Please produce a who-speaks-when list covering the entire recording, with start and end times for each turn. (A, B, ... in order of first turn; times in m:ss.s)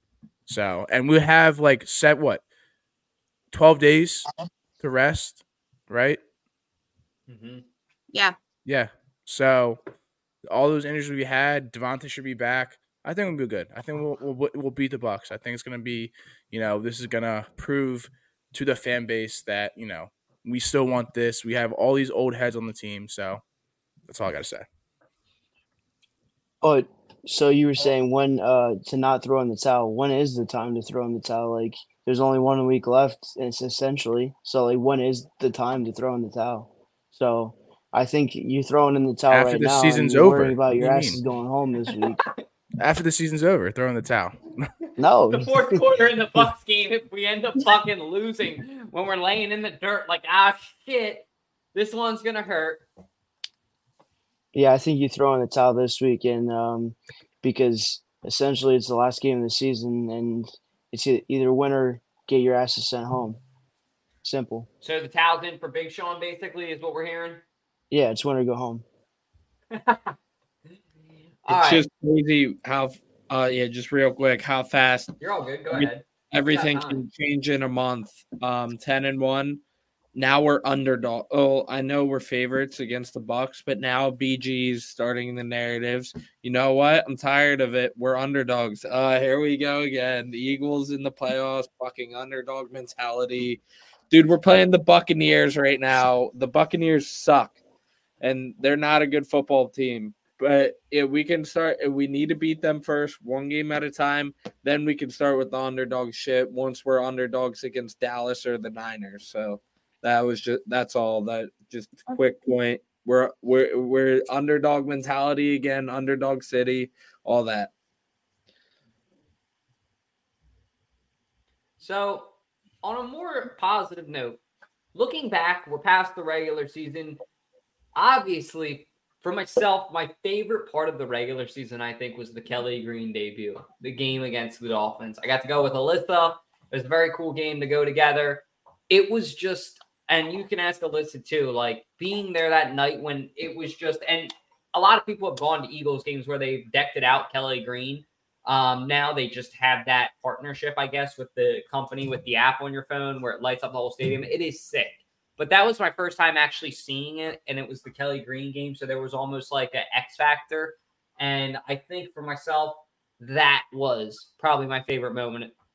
0:00.5-0:02.4 A
0:03.5-0:04.3 A
0:04.8-0:06.2 A
0:07.3-0:07.6 B
0:08.6-0:09.8 A
0:10.5-0:23.4 A
0:24.1-0:24.6 A
0:26.6-0:42.2 C
0:39.3-0:41.2 A
0:42.8-0:44.4 A
0:45.0-0:45.8 C
0:45.3-0:52.8 B
0:54.5-1:03.4 C
1:04.2-1:04.7 C
1:04.8-1:07.4 B
1:07.9-1:08.8 C
1:09.7-1:10.2 B
1:11.4-1:11.8 B
1:11.5-1:15.1 D
1:15.2-1:17.0 B
1:15.7-1:19.6 D
1:20.1-1:37.6 D
1:38.2-1:57.7 D
2:01.8-2:02.3 B
2:02.8-2:04.4 B
2:04.9-2:07.2 B
2:08.0-2:45.5 B